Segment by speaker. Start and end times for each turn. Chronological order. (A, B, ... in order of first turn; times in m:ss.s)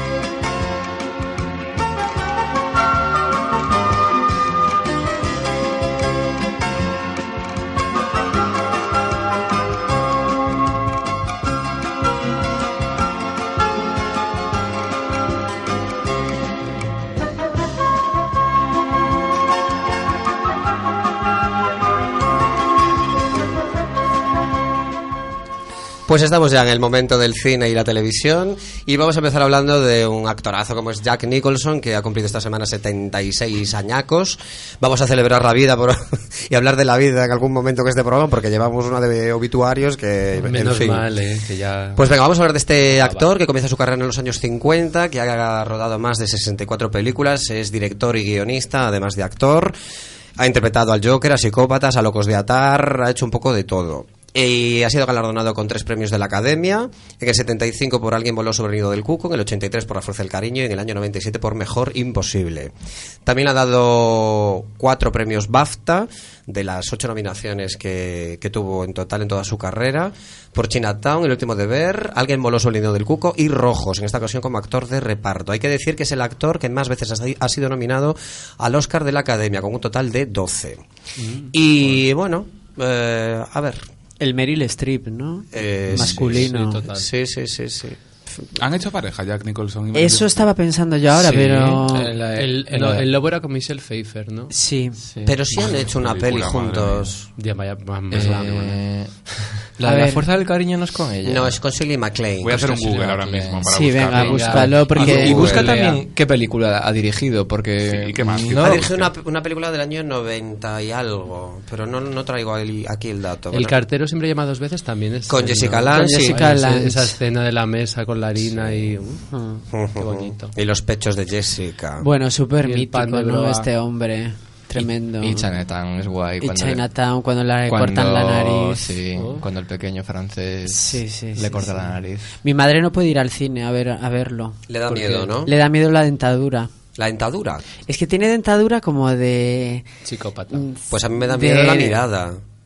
0:26.1-0:41.0 A
0:40.4-0:42.0 B
0:42.0-0:49.7 A
0:42.9-0:43.2 B
0:50.4-1:02.7 A
1:03.2-1:20.8 A
1:21.2-1:21.5 B
1:21.5-1:23.8 A
1:24.2-1:26.8 C
1:25.5-1:28.0 A
1:26.3-1:27.1 B
1:28.6-1:30.4 D
1:29.9-1:32.1 C
1:31.1-1:33.1 E
1:32.0-1:34.5 B
1:34.5-1:35.0 C
1:35.0-1:35.4 E
1:35.2-1:37.3 A
1:35.5-1:37.1 D
1:37.4-1:38.8 B
1:38.1-1:41.6 E
1:39.8-1:40.2 C
1:41.2-1:42.7 A
1:42.4-1:45.2 D
1:42.5-1:43.7 E
1:43.7-1:45.6 C
1:44.2-1:46.0 B
1:44.6-1:48.9 E
1:45.1-1:45.8 A
1:47.8-1:49.1 D
1:48.5-1:53.8 A
1:53.5-1:59.2 B
1:55.3-1:56.4 A
1:55.9-1:57.2 C
1:58.5-1:58.8 A
1:59.2-1:59.6 C
1:59.7-2:02.1 A
2:00.0-2:00.5 B
2:02.0-2:05.4 C
2:02.6-2:03.7 B
2:04.8-2:06.8 E
2:06.4-2:08.9 C
2:07.7-2:12.3 E
2:09.1-2:09.4 B
2:10.7-2:14.6 C
2:14.7-2:15.5 A
2:14.9-2:15.3 B
2:15.4-2:16.7 C
2:17.0-2:17.6 A
2:17.8-2:19.9 C
2:20.0-2:20.7 B
2:20.5-2:22.0 C
2:20.9-2:22.4 A